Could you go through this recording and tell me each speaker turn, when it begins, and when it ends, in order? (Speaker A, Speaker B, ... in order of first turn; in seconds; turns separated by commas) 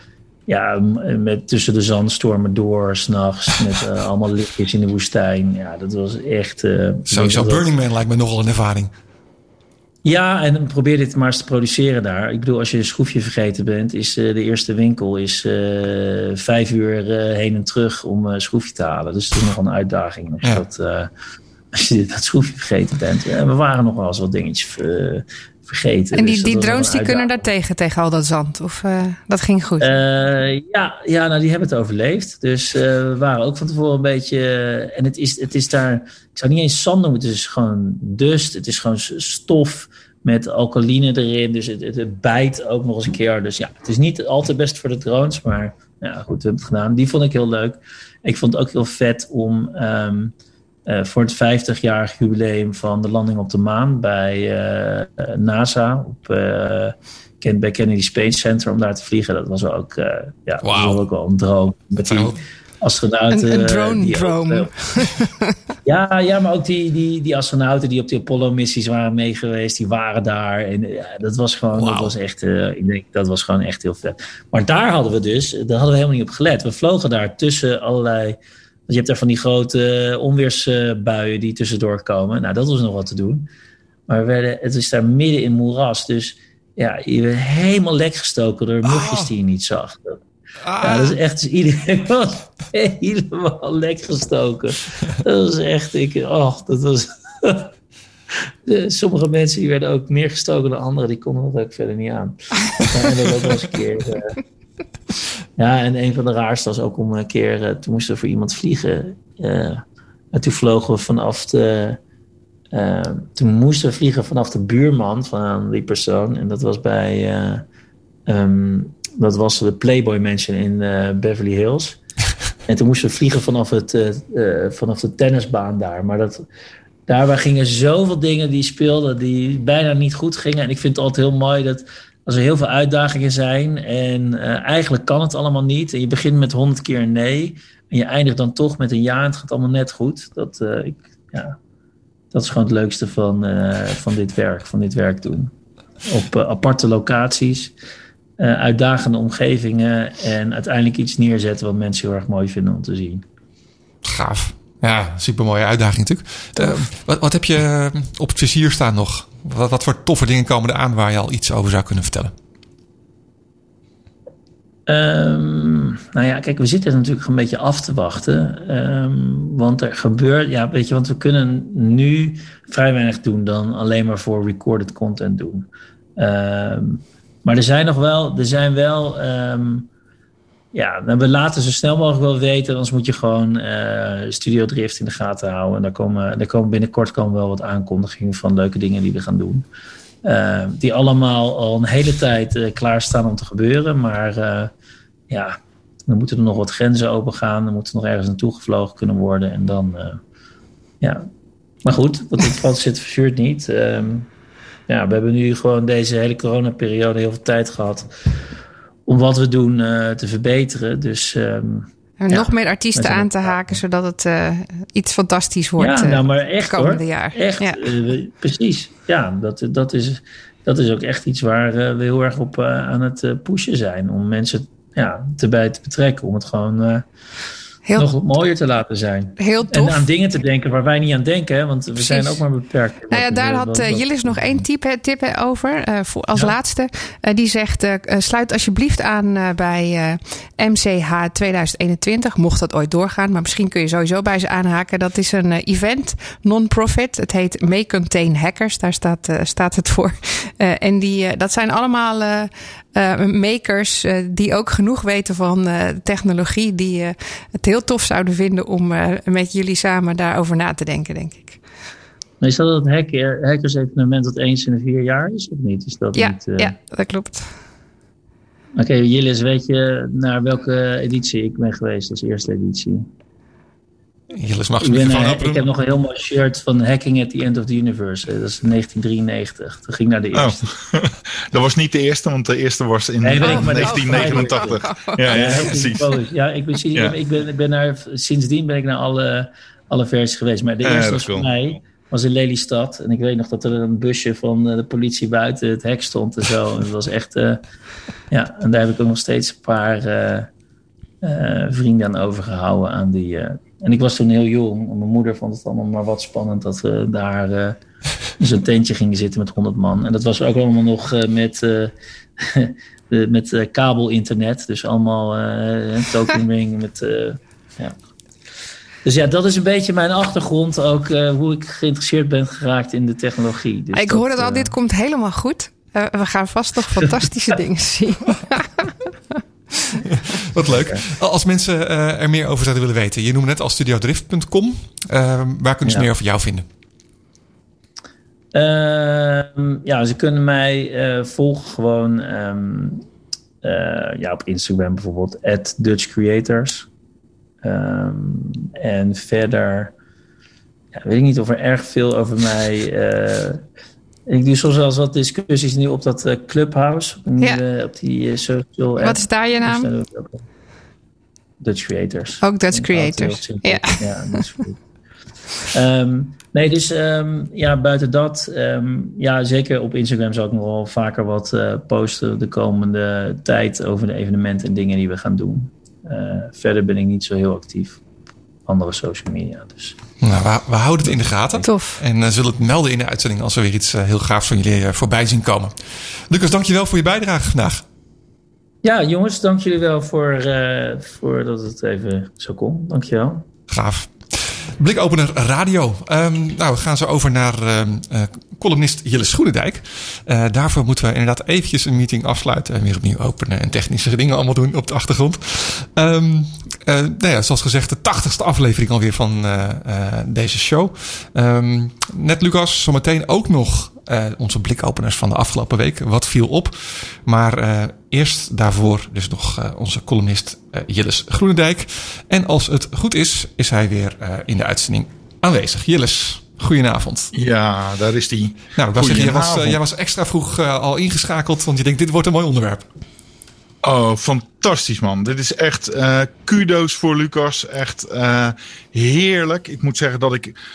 Speaker A: 0.5-7.7, Speaker B: 7.1-8.9, Speaker A: 10.1-21.1, Speaker A: 21.7-27.4, Speaker C: 26.1-30.0, Speaker A: 29.8-50.3, Speaker A: 50.9-64.7, Speaker B: 60.6-61.0, Speaker B: 62.0-62.4, Speaker C: 63.3-65.5, Speaker A: 65.8-83.5, Speaker B: 71.7-72.1, Speaker A: 84.1-90.2, Speaker B: 88.8-89.3, Speaker B: 90.6-91.2, Speaker A: 90.8-97.7, Speaker A: 98.7-104.4, Speaker A: 105.6-112.0, Speaker A: 112.7-117.6, Speaker A: 118.3-122.0, Speaker A: 122.7-126.4, Speaker A: 127.1-141.6, Speaker A: 142.3-145.5, Speaker A: 146.1-147.7, Speaker A: 148.4-153.2, Speaker B: 154.0-162.3, Speaker A: 164.9-179.9, Speaker A: 180.7-189.7, Speaker A: 190.2-194.7, Speaker A: 195.3-200.2, Speaker A: 201.0-201.3, Speaker A: 201.8-204.3, Speaker A: 204.9-208.1, Speaker A: 209.1-213.8, Speaker C: 212.2-217.9, Speaker A: 215.8-227.1, Speaker C: 227.9-228.3, Speaker A: 228.0-234.6, Speaker C: 229.4-230.1, Speaker C: 232.0-232.4, Speaker C: 233.1-261.6, Speaker A: 262.4-266.7, Speaker C: 266.1-267.5, Speaker A: 268.8-273.1, Speaker B: 274.3-275.7, Speaker A: 274.8-280.7, Speaker D: 280.4-286.1, Speaker A: 283.2-297.6, Speaker C: 283.4-285.2, Speaker D: 290.8-291.5, Speaker A: 298.3-300.5, Speaker A: 301.2-307.8, Speaker A: 308.4-318.0, Speaker A: 319.1-324.7, Speaker C: 323.9-328.9, Speaker B: 330.1-336.6, Speaker A: 330.7-331.0, Speaker A: 338.5-343.1, Speaker A: 343.6-346.9, Speaker A: 347.6-349.9, Speaker A: 350.9-353.6, Speaker A: 354.3-360.4, Speaker C: 359.0-359.9, Speaker A: 361.6-364.8, Speaker C: 362.4-364.5, Speaker A: 365.7-378.0, Speaker A: 378.7-380.0, Speaker B: 380.2-387.8, Speaker C: 381.6-382.0, Speaker A: 388.8-393.5, Speaker B: 393.7-427.3, Speaker D: 427.3-429.8, Speaker B: 428.8-432.9, Speaker D: 433.8-440.6